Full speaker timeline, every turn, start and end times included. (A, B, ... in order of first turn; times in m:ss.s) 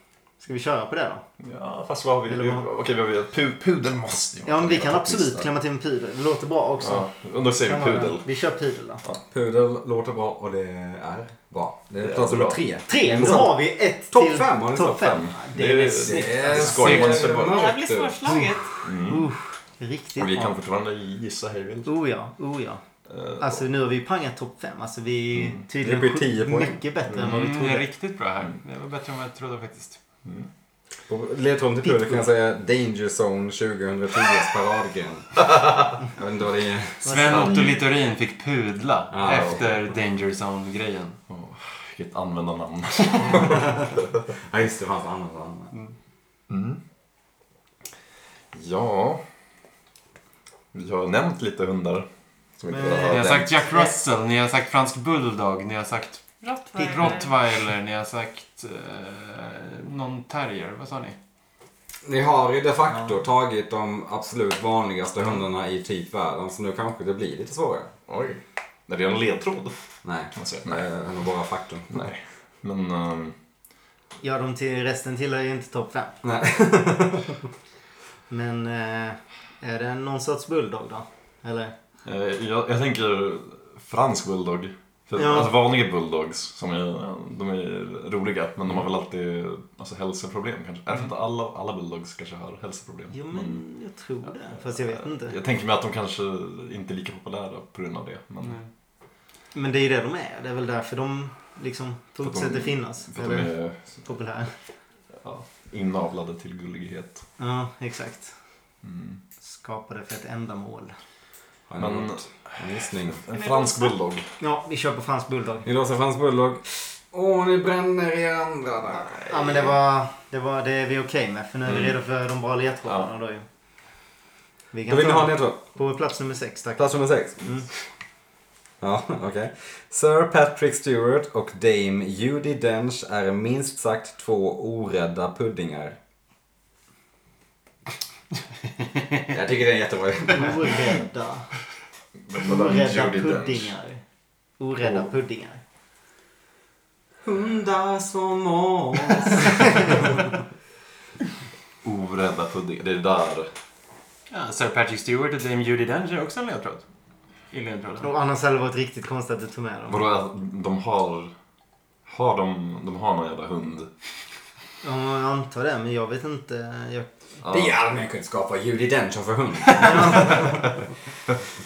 0:00.4-0:01.2 A
0:01.4-0:05.5 B
0:02.3-0:02.6 A
0:04.5-0:07.1 A
0:06.8-0:08.3 B
0:07.6-0:09.0 A
0:09.3-0:15.0 C
0:12.0-0:12.6 B
0:12.9-0:17.4 A
0:14.8-0:17.7 B
0:16.0-0:18.4 C
0:17.4-0:18.8 D
0:18.2-0:20.6 A
0:18.8-0:19.3 B
0:20.2-0:21.9 B
0:21.9-0:22.8 A
0:23.1-0:23.6 B
0:23.4-0:27.9 A
0:25.8-0:26.8 C
0:27.1-0:27.3 B
0:27.2-0:30.0 E
0:31.1-0:35.5 C
0:31.8-0:32.1 A
0:36.1-0:37.1 C
0:37.0-0:37.7 A
0:37.1-0:41.2 E
0:37.3-0:37.8 B
0:39.1-0:39.6 C
0:39.2-0:39.6 B
0:41.3-0:43.8 B
0:44.5-0:45.7 C
0:46.5-0:46.8 B
0:48.5-0:49.2 B
0:50.7-0:53.4 B
0:52.7-0:53.9 A
0:53.0-0:56.3 E
0:53.2-0:53.5 C
0:56.4-0:57.3 D
0:56.8-0:57.2 A
0:56.9-1:01.2 E
1:02.0-1:07.9 C
1:08.1-1:09.8 B
1:10.0-1:12.0 C
1:10.4-1:10.8 B
1:11.9-1:13.4 B
1:14.2-1:16.2 A
1:16.2-1:17.4 C
1:18.3-1:21.7 A
1:22.0-1:33.6 B
1:25.2-1:25.5 A
1:33.1-1:35.4 A
1:34.9-1:38.6 B
1:38.4-1:38.7 E
1:39.5-1:44.5 A
1:42.2-1:44.0 B
1:45.2-1:47.2 B
1:47.4-1:48.3 A
1:48.8-1:49.2 B
1:49.4-1:50.9 A
1:51.7-1:53.2 C
1:51.8-1:54.3 B
1:53.3-1:54.0 D
1:54.4-1:55.7 A
1:55.6-1:59.1 C
1:59.0-1:59.7 B
1:59.3-2:03.5 A
2:01.7-2:01.9 B
2:04.7-2:06.8 A
2:04.9-2:05.6 C
2:06.8-2:07.5 C
2:08.8-2:16.0 C
2:19.3-2:20.8 C
2:20.3-2:21.5 A
2:22.3-2:23.7 B
2:22.4-2:24.0 A
2:24.6-2:25.6 A
2:27.2-2:30.2 C
2:31.8-2:33.5 B
2:34.3-2:36.8 E
2:37.5-2:38.1 E
2:38.0-2:40.0 A
2:39.9-2:41.3 B
2:42.1-2:43.9 B
2:44.8-2:47.1 A
2:47.4-2:47.7 B
2:47.5-2:50.8 C
2:49.8-2:50.4 A